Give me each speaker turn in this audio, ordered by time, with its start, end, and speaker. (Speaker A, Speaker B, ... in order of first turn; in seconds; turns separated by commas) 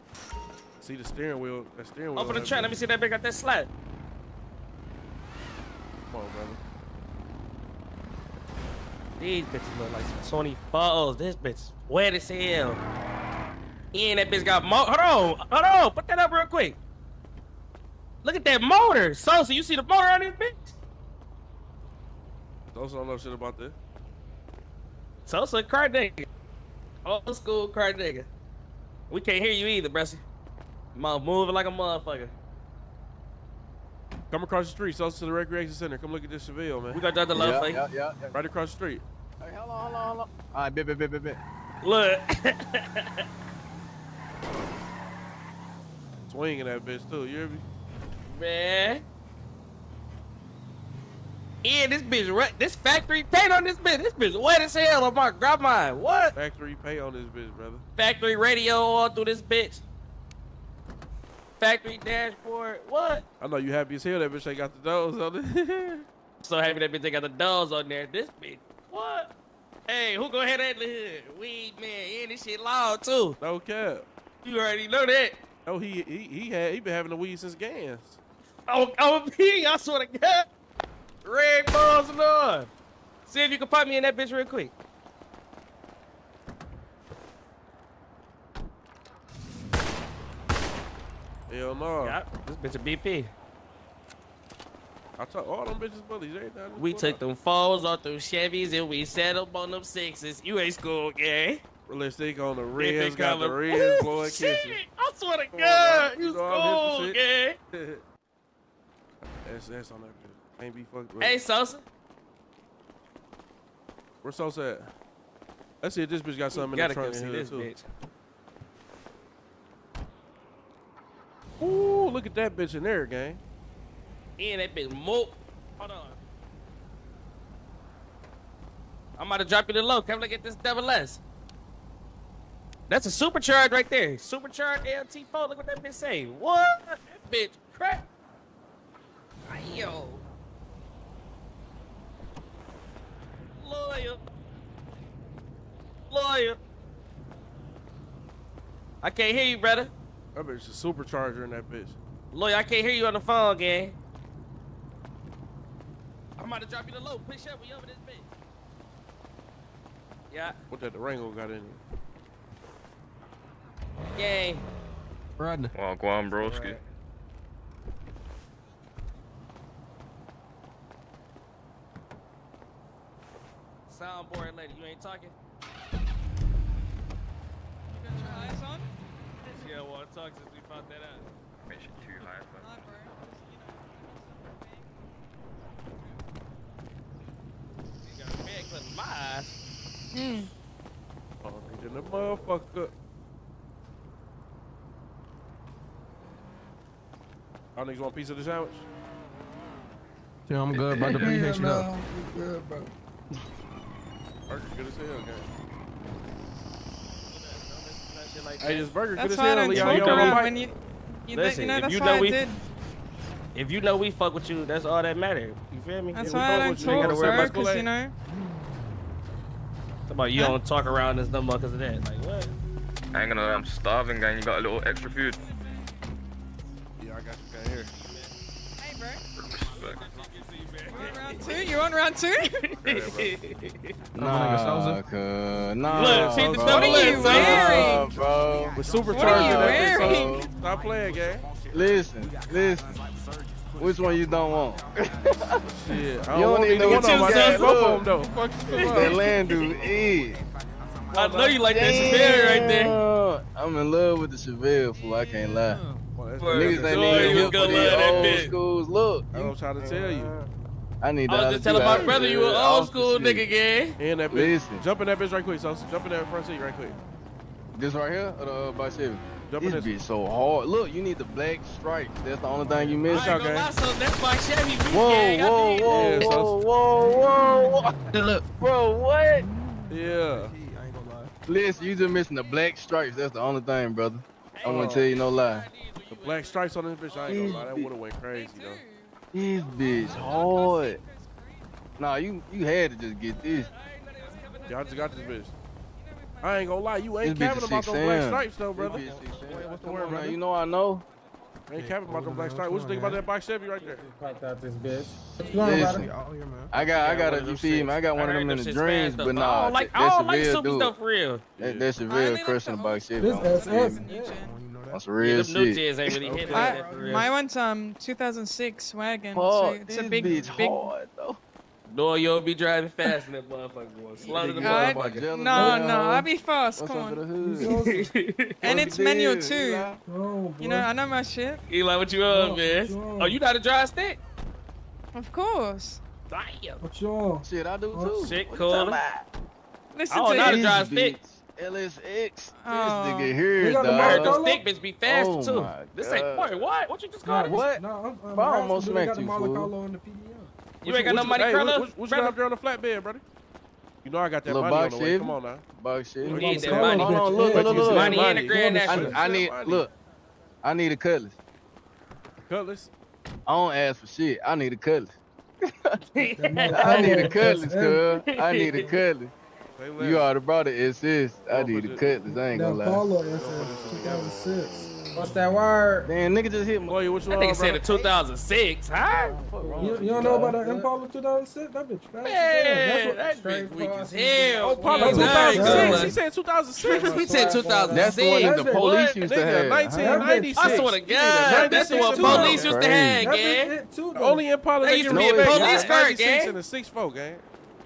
Speaker A: 0.8-2.8, Speaker B: 2.1-3.7, Speaker A: 6.0-6.6, Speaker B: 9.2-12.8, Speaker B: 13.9-16.8, Speaker B: 18.2-20.7, Speaker A: 22.7-23.7, Speaker B: 25.2-26.3, Speaker B: 27.0-28.3, Speaker B: 29.1-30.2, Speaker B: 30.9-32.3, Speaker A: 34.3-37.0, Speaker B: 36.9-37.8, Speaker C: 37.3-38.4, Speaker A: 38.3-39.0, Speaker C: 39.4-41.4, Speaker B: 41.8-43.2, Speaker A: 46.3-47.6, Speaker B: 48.3-49.0, Speaker B: 51.6-56.3, Speaker A: 56.3-57.8, Speaker B: 58.0-59.8, Speaker B: 61.6-63.2, Speaker A: 63.4-66.0, Speaker B: 66.4-69.3, Speaker B: 69.9-73.4, Speaker A: 73.4-74.0, Speaker B: 74.4-75.4, Speaker A: 75.7-78.2, Speaker B: 78.7-80.5, Speaker B: 81.2-82.7, Speaker B: 83.2-84.7, Speaker A: 91.5-92.2, Speaker B: 92.0-93.3, Speaker A: 95.2-97.2, Speaker B: 96.8-101.6, Speaker A: 101.9-104.8, Speaker B: 102.8-107.6, Speaker A: 105.5-107.2, Speaker A: 107.7-108.0, Speaker A: 109.2-111.4, Speaker B: 111.2-111.8, Speaker A: 114.2-114.9, Speaker A: 115.8-117.7, Speaker B: 116.5-117.8, Speaker A: 121.6-123.4, Speaker B: 124.4-126.2, Speaker B: 129.2-131.2, Speaker B: 132.9-138.1, Speaker B: 139.5-140.2, Speaker B: 143.6-144.2, Speaker B: 146.1-146.6, Speaker B: 149.0-149.9, Speaker A: 150.3-152.0, Speaker B: 152.3-153.9, Speaker B: 156.4-158.3, Speaker B: 160.3-160.6, Speaker A: 160.7-161.8, Speaker B: 164.1-164.7, Speaker D: 165.4-165.7, Speaker E: 165.7-166.8, Speaker B: 166.3-166.8, Speaker B: 173.9-175.3, Speaker F: 177.9-178.9, Speaker F: 179.4-179.8, Speaker B: 179.5-181.3, Speaker E: 181.7-183.0, Speaker F: 182.2-185.0, Speaker B: 188.0-189.6, Speaker F: 190.1-190.5, Speaker A: 191.4-192.9, Speaker A: 197.8-198.8, Speaker D: 200.5-201.9, Speaker G: 200.9-202.9, Speaker A: 204.5-205.5, Speaker B: 207.3-209.0, Speaker A: 208.6-210.6, Speaker F: 209.2-212.6, Speaker B: 209.7-210.5, Speaker B: 211.3-212.4, Speaker B: 213.5-217.5, Speaker F: 216.1-218.1, Speaker A: 216.2-217.9, Speaker B: 220.1-222.5, Speaker E: 223.1-225.5, Speaker A: 227.0-227.9, Speaker B: 227.9-228.3, Speaker F: 228.8-229.2, Speaker E: 229.4-230.1, Speaker B: 229.7-231.8, Speaker F: 230.9-232.7, Speaker B: 232.5-234.0, Speaker A: 232.8-233.3, Speaker D: 234.2-235.0, Speaker C: 234.2-240.5, Speaker A: 235.8-238.0, Speaker B: 235.9-238.0, Speaker F: 236.6-238.2, Speaker A: 238.6-241.4, Speaker F: 239.1-240.4, Speaker C: 241.7-243.0, Speaker C: 243.8-248.1, Speaker A: 245.7-249.2, Speaker B: 246.8-247.8, Speaker B: 248.7-249.8, Speaker C: 248.8-250.4, Speaker A: 251.1-252.6, Speaker B: 251.1-253.0, Speaker C: 251.6-255.8, Speaker A: 256.1-258.5, Speaker B: 256.4-258.5, Speaker C: 256.5-259.4, Speaker A: 259.3-260.4, Speaker C: 261.0-263.5, Speaker B: 261.3-264.0, Speaker A: 261.8-262.5, Speaker A: 264.0-267.0, Speaker C: 264.3-264.8, Speaker C: 267.7-273.4, Speaker A: 269.5-269.9, Speaker D: 272.6-273.0, Speaker B: 273.1-276.3, Speaker A: 273.1-273.7, Speaker C: 274.9-279.5, Speaker A: 275.9-276.6, Speaker D: 278.1-278.4, Speaker A: 279.9-280.5, Speaker D: 280.0-281.4, Speaker C: 281.5-285.7, Speaker F: 281.5-283.4, Speaker B: 284.5-287.6, Speaker A: 284.6-285.0, Speaker A: 286.1-288.8, Speaker C: 287.3-287.9, Speaker F: 288.3-292.2, Speaker C: 289.3-291.0, Speaker C: 292.0-293.7, Speaker F: 293.3-297.4, Speaker B: 293.4-295.2, Speaker A: 294.7-295.5, Speaker A: 296.4-299.0, Speaker C: 297.2-301.0, Speaker D: 298.8-300.4, Speaker A: 301.7-304.0, Speaker D: 301.7-303.2, Speaker G: 303.8-306.1, Speaker C: 305.2-306.1, Speaker F: 305.3-305.9, Speaker D: 305.9-306.8, Speaker C: 306.7-310.9, Speaker B: 306.8-311.4, Speaker A: 311.6-311.9, Speaker C: 311.6-314.1, Speaker F: 312.1-314.5, Speaker G: 313.2-314.4, Speaker D: 314.2-315.1, Speaker C: 314.9-316.2, Speaker B: 315.2-317.3, Speaker A: 316.2-316.8, Speaker D: 316.4-317.2, Speaker F: 316.5-320.9, Speaker C: 319.3-321.4, Speaker B: 321.9-325.2, Speaker C: 324.2-327.8, Speaker F: 324.5-327.3, Speaker G: 325.6-325.8, Speaker G: 327.4-328.1, Speaker B: 327.6-328.8, Speaker F: 328.6-329.9, Speaker C: 328.6-330.0, Speaker G: 330.0-330.9, Speaker F: 330.6-331.6, Speaker B: 331.7-334.2, Speaker G: 332.3-333.4, Speaker F: 335.1-336.0, Speaker B: 336.3-336.8, Speaker G: 336.8-338.3, Speaker C: 337.4-339.2, Speaker B: 338.2-339.0, Speaker F: 339.9-340.9, Speaker B: 340.1-341.2, Speaker C: 340.4-344.4, Speaker F: 342.5-343.5, Speaker G: 343.5-344.6, Speaker B: 343.9-347.6, Speaker C: 345.0-346.7, Speaker G: 347.2-350.5, Speaker C: 347.4-349.7, Speaker B: 350.8-352.4, Speaker A: 350.8-353.2, Speaker A: 354.0-355.6, Speaker C: 354.4-358.3, Speaker A: 356.2-359.9, Speaker G: 356.2-359.1, Speaker B: 356.3-359.2, Speaker C: 358.9-359.9, Speaker C: 360.6-361.4, Speaker A: 362.4-362.9, Speaker C: 363.5-365.1, Speaker C: 365.6-366.0, Speaker B: 366.1-367.4, Speaker G: 366.4-368.1, Speaker C: 366.6-369.3, Speaker B: 368.1-369.0, Speaker A: 369.8-370.3, Speaker C: 370.0-373.1, Speaker A: 371.4-372.2, Speaker G: 372.3-376.1, Speaker A: 373.3-374.5, Speaker C: 376.0-377.0, Speaker A: 376.8-377.8, Speaker B: 377.3-379.4, Speaker C: 379.2-380.9, Speaker G: 379.2-386.2, Speaker B: 382.2-386.1, Speaker A: 384.8-387.6, Speaker C: 384.8-386.1, Speaker B: 386.8-389.0, Speaker G: 386.8-389.0, Speaker C: 387.9-390.4, Speaker A: 388.7-392.7, Speaker G: 389.9-394.4, Speaker B: 390.5-393.7, Speaker C: 392.1-393.3, Speaker A: 394.1-397.4, Speaker B: 394.8-396.6, Speaker C: 395.1-395.9